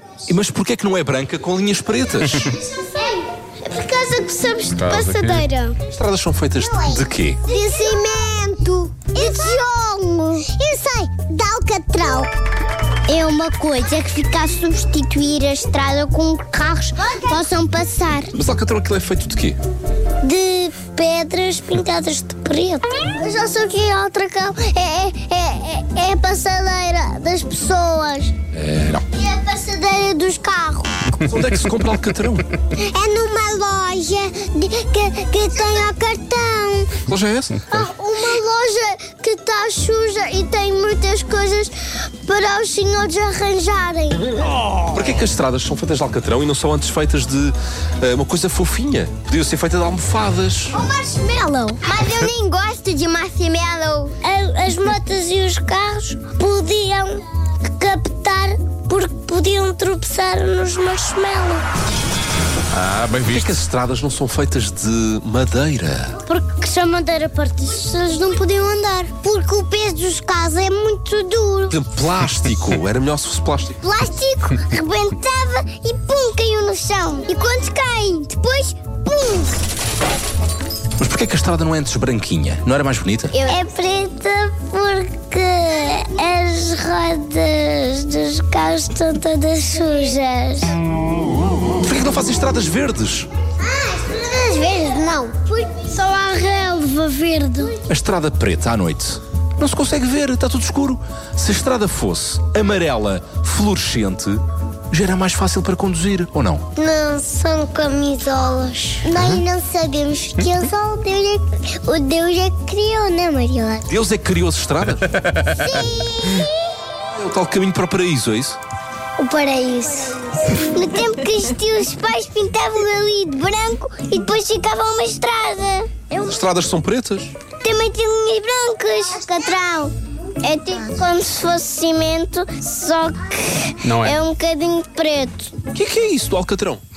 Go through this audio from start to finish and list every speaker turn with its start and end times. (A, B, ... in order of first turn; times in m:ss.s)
0:00.3-0:02.6 A
0:02.5-0:05.8 B
0:04.8-0:05.5 C
0:05.9-0:07.4 A
0:06.6-0:12.3 B
0:13.1-0:18.3 B
0:18.3-0:19.6 A
0:20.2-0:28.3 B
0:28.5-0:29.0 A
0:29.1-0:30.9 B
0:31.2-0:32.5 A
0:32.8-0:37.0 B
0:37.1-0:37.6 A
0:37.7-0:44.3 B
0:44.9-0:50.8 A
0:50.7-1:01.6 B
1:02.7-1:03.6 C
1:03.3-1:06.2 A
1:06.2-1:11.8 B
1:11.7-1:13.8 A
1:13.8-1:19.6 B
1:21.0-1:23.4 A
1:23.4-1:30.8 B
1:31.8-1:33.3 A
1:33.6-1:37.8 B
1:37.9-1:46.7 A
1:46.8-1:53.9 B
1:53.9-1:55.2 A
1:55.2-1:55.5 C
1:55.4-1:56.7 B
1:57.0-1:58.6 A
1:59.2-2:06.1 B
2:06.1-2:07.3 A
2:07.6-2:15.5 B
2:13.8-2:14.2 C
2:15.7-2:16.8 A